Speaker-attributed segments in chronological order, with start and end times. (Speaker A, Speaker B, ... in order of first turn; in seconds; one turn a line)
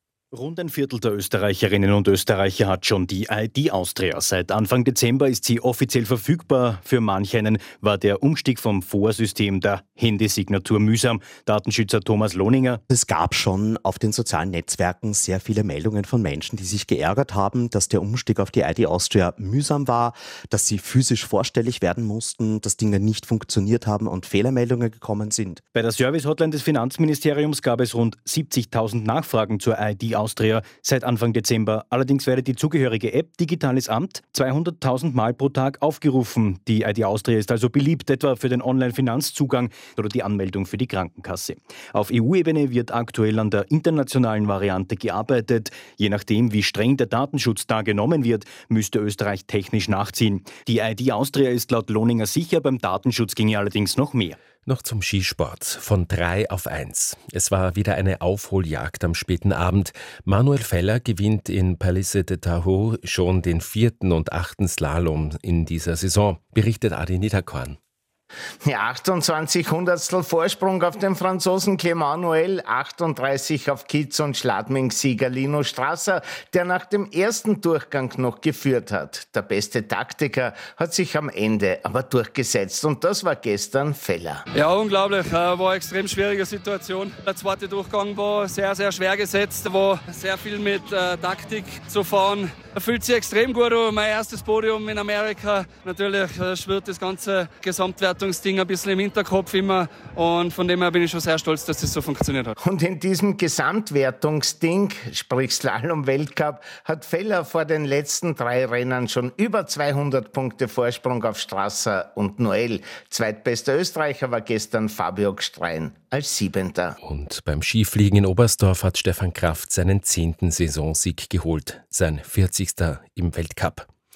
Speaker A: 0.3-12.8
Speaker B: 12.9-25.6
Speaker A: 25.8-54.4
Speaker C: 54.7-67.8
Speaker D: 68.7-84.4
Speaker E: 84.5-102.5
Speaker D: 102.6-117.0
Speaker C: 117.0-123.9